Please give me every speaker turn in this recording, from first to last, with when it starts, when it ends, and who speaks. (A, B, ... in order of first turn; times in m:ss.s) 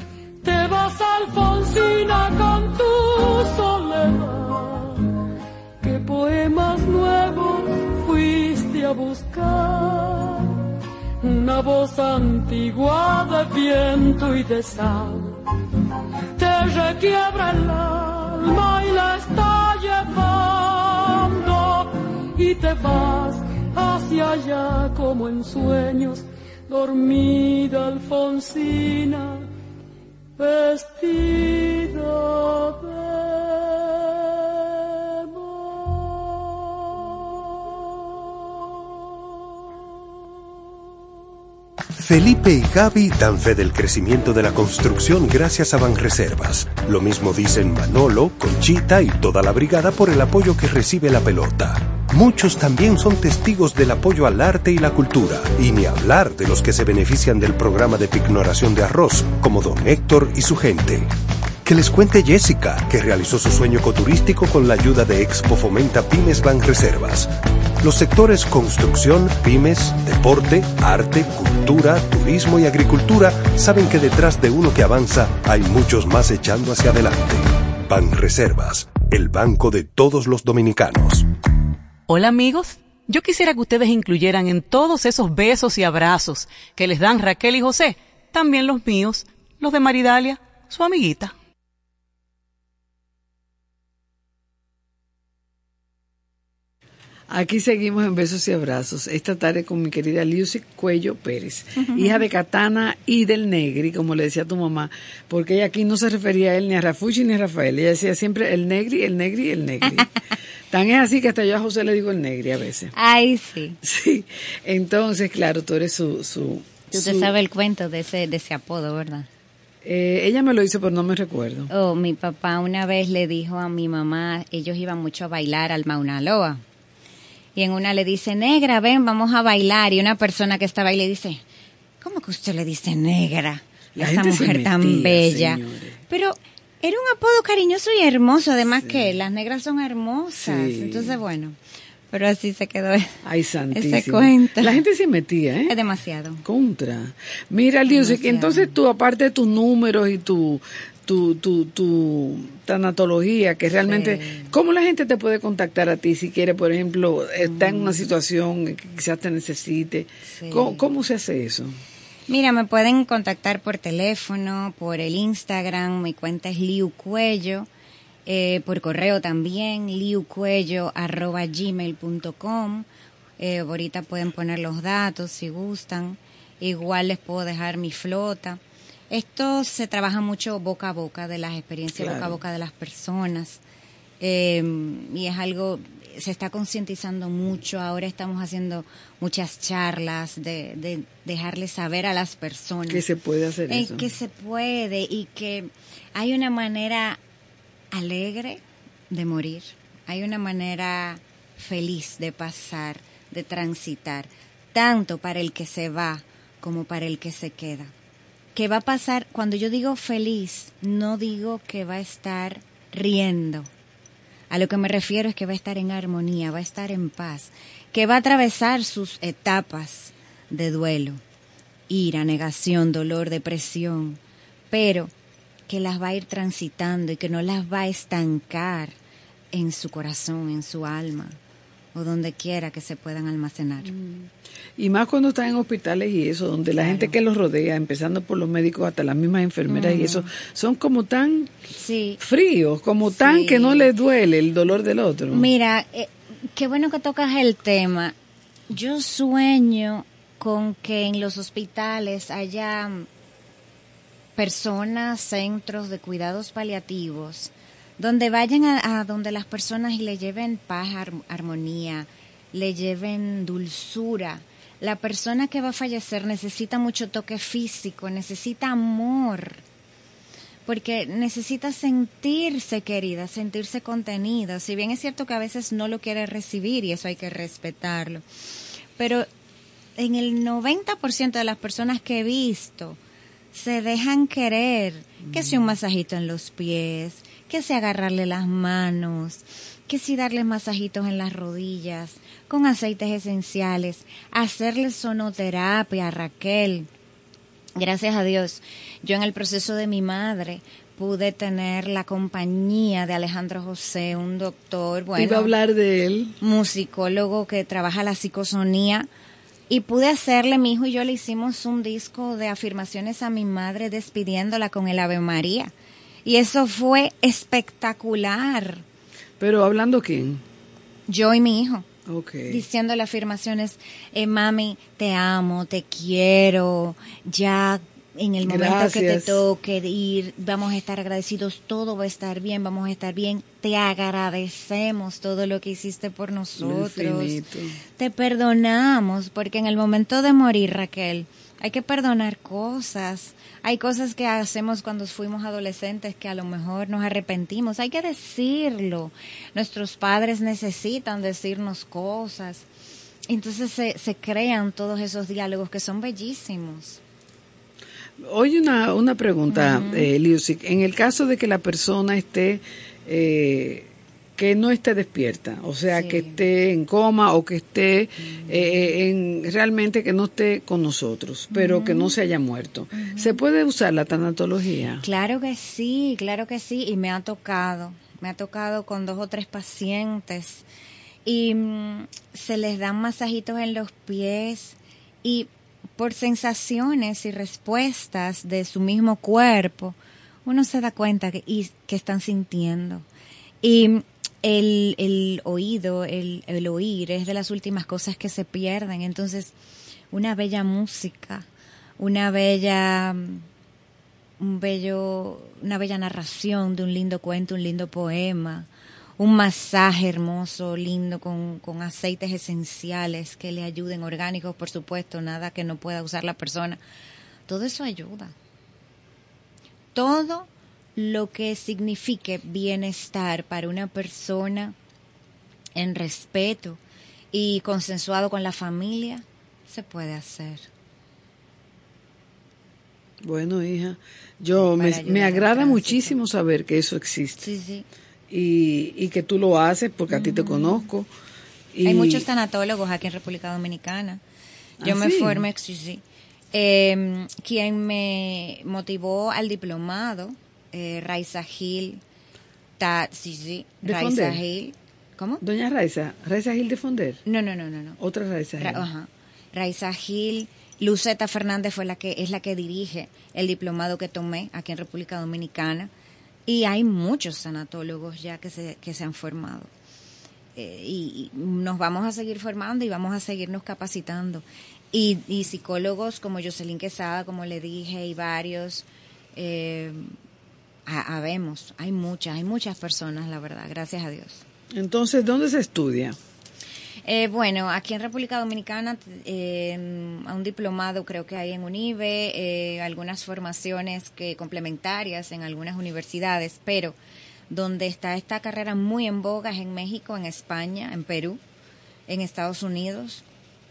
0:00.4-0:05.1 A
0:05.8-0:10.6 A
0:11.2-0:15.4 A
0:16.4-0:29.5 A
0:30.4-0:36.2 A
0:42.0-1:01.1 B
1:01.6-1:07.3 B
1:07.8-1:21.3 B
1:22.1-1:31.3 C
1:37.3-1:50.1 D
1:41.8-1:42.2 E
1:50.7-1:52.9 D
1:52.9-1:53.8 E
1:53.8-1:57.3 D
1:56.9-1:59.3 E
1:59.8-2:01.7 D
2:01.7-2:06.6 E
2:07.6-2:11.4 E
2:12.0-2:21.6 E
2:14.0-2:16.0 D
2:18.7-2:19.2 D
2:20.4-2:21.2 D
2:22.1-2:23.2 E
2:23.2-2:25.7 D
2:23.7-2:24.8 E
2:25.7-2:26.4 E
2:26.4-2:41.8 D
2:27.9-2:28.7 E
2:33.8-2:34.5 E
2:37.4-2:38.1 E
2:40.3-2:40.9 E
2:42.3-2:47.7 E
2:48.3-2:52.9 E
2:53.4-3:03.6 E
3:02.0-3:02.4 D
3:04.2-3:13.0 E
3:12.9-3:14.1 D
3:13.7-3:17.2 E
3:17.9-3:27.9 E
3:28.6-3:33.7 E
3:34.5-3:41.2 E
3:41.9-3:45.1 E
3:45.7-3:49.0 E
3:49.5-3:51.4 E
3:51.9-3:53.9 E
3:53.8-4:01.6 D
3:56.8-3:57.2 E
3:59.7-4:00.3 E
4:01.7-4:02.2 E
4:02.2-4:05.5 D
4:03.0-4:03.9 E
4:05.3-4:08.2 E
4:08.7-4:13.1 E
4:14.4-4:29.6 E
4:30.7-4:38.2 E
4:39.0-4:39.3 E
4:40.0-4:43.0 E
4:43.5-4:56.9 E
4:45.2-4:45.8 D
4:57.8-5:05.5 E
5:05.1-5:06.4 D
5:06.4-5:09.1 E
5:09.7-5:15.7 E
5:16.2-5:18.8 E
5:19.4-5:20.4 D
5:21.1-5:21.9 E
5:22.1-5:22.6 D
5:22.5-5:37.4 E
5:28.4-5:29.4 D
5:36.6-5:37.8 D
5:38.0-5:52.7 E
5:53.3-5:57.0 E
5:58.2-6:15.0 D
5:59.5-6:00.1 E
6:05.9-6:06.4 E
6:08.2-6:08.7 E
6:11.5-6:12.1 E
6:12.9-6:13.4 E
6:15.0-6:20.6 E
6:21.2-6:33.1 E
6:33.6-6:39.5 E
6:40.1-6:41.5 E
6:42.0-6:43.5 E
6:44.4-6:56.8 E
6:57.5-6:58.4 E
6:59.9-7:04.8 E
7:05.8-7:06.8 E
7:07.3-7:10.7 E
7:13.2-7:17.5 D
7:14.8-7:16.2 E
7:17.4-7:17.9 E
7:18.3-7:21.1 D
7:20.1-7:20.9 E
7:21.8-7:22.3 D
7:21.8-7:24.2 E
7:24.8-7:25.5 D
7:24.8-7:32.0 E
7:32.8-7:35.4 E
7:33.8-7:34.4 D
7:35.4-7:37.2 D
7:37.3-7:38.0 E
7:38.0-7:38.9 D
7:38.6-7:45.9 E
7:46.5-7:49.7 E
7:50.6-8:00.1 E
8:00.9-8:04.4 E
8:04.7-8:06.2 D
8:07.0-8:17.0 E
8:17.5-8:21.4 E
8:22.1-8:23.2 E